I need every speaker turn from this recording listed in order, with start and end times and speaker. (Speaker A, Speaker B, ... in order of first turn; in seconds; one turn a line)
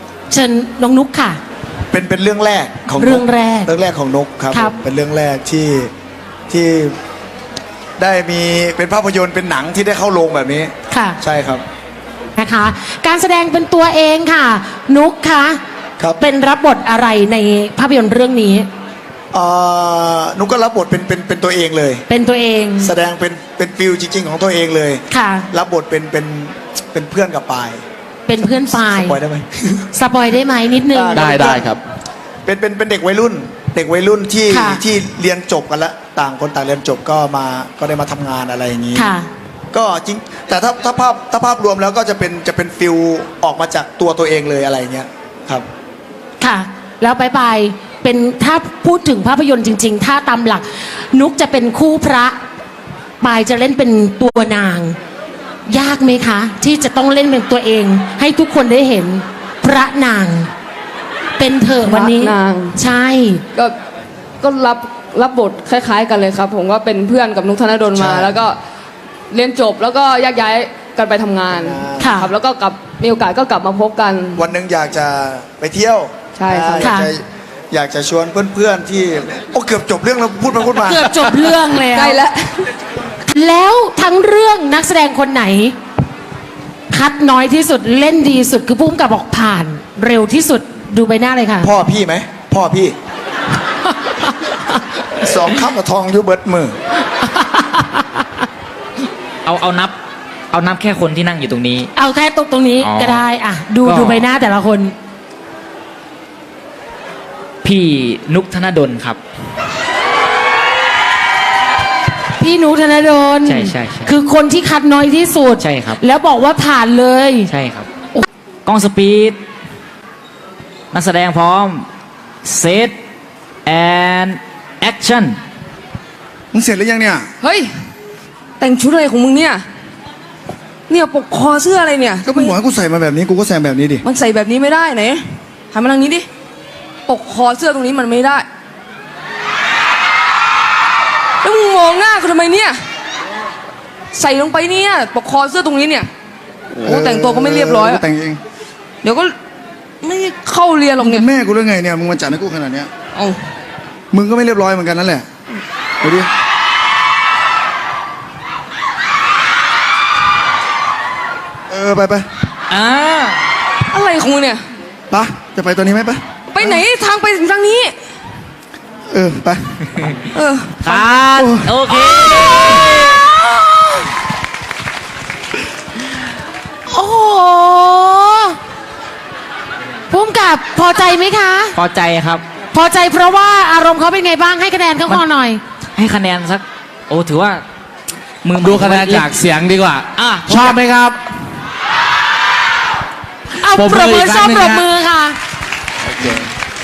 Speaker A: 0.3-1.4
Speaker B: 1.9-5.9
Speaker A: 3.0-3.7
Speaker B: 6.5-7.0
Speaker B: 8.0-11.6
Speaker A: 10.9-11.2
Speaker A: 12.4-15.6
Speaker A: 16.2-18.7
Speaker B: 19.3-22.0
Speaker A: 22.1-22.9
Speaker B: 22.8-27.8
Speaker A: 25.1-25.5
Speaker A: 28.3-29.2
Speaker B: 28.7-29.8
Speaker A: 29.9-31.6
Speaker B: 30.9-31.8
Speaker C: 31.1-31.8
Speaker B: 32.5-39.1
Speaker A: 34.5-34.8
Speaker A: 39.0-39.3
Speaker B: 39.7-45.7
Speaker A: 46.4-52.4
Speaker A: 53.2-55.0
Speaker A: 55.7-60.5
Speaker A: 61.4-63.4
Speaker D: 61.8-62.8
Speaker D: 64.4-68.6
Speaker B: 67.9-68.4
Speaker D: 69.3-74.4
Speaker B: 71.5-72.1
Speaker A: 72.0-72.3
Speaker B: 74.4-81.3
Speaker D: 76.4-76.9
Speaker A: 76.8-77.1
Speaker A: 80.8-82.2
Speaker D: 81.5-82.7
Speaker A: 83.3-85.8
Speaker A: 86.9-91.7
Speaker B: 91.6-93.0
Speaker B: 95.2-96.8
Speaker A: 97.3-98.0
Speaker E: 99.4-100.0
Speaker E: 100.5-101.9
Speaker A: 102.0-104.9
Speaker E: 102.8-103.2
Speaker E: 103.8-104.2
Speaker E: 107.6-109.2
Speaker A: 112.4-117.5
Speaker E: 113.5-114.2
Speaker E: 115.6-116.0
Speaker E: 117.5-117.9
Speaker E: 118.7-119.4
Speaker E: 120.9-121.9
Speaker E: 122.4-123.0
Speaker E: 123.7-125.4
Speaker B: 126.5-127.3
Speaker D: 127.4-127.7
Speaker D: 128.6-129.7
Speaker D: 130.9-132.6
Speaker B: 132.2-134.1
Speaker D: 134.0-136.3
Speaker D: 137.1-138.5
Speaker D: 141.4-142.8
Speaker D: 144.1-146.1
Speaker D: 146.7-148.0
Speaker B: 146.8-148.4
Speaker D: 149.0-149.3
Speaker D: 150.0-151.3
Speaker B: 151.0-152.9
Speaker D: 153.2-153.4
Speaker B: 154.1-155.3
Speaker B: 156.0-156.3
Speaker B: 161.7-162.3
Speaker E: 162.7-163.5
Speaker D: 163.8-164.6
Speaker B: 165.1-166.8
Speaker D: 166.5-168.0
Speaker B: 169.1-170.2
Speaker D: 170.3-171.2
Speaker E: 170.8-173.2
Speaker B: 171.3-171.8
Speaker A: 176.9-178.6
Speaker A: 180.1-181.8
Speaker E: 181.7-182.4
Speaker A: 182.7-185.6
Speaker E: 185.9-187.7
Speaker E: 188.4-189.3
Speaker C: 188.6-191.6
Speaker E: 190.2-190.8
Speaker A: 193.6-195.4
Speaker C: 193.6-194.9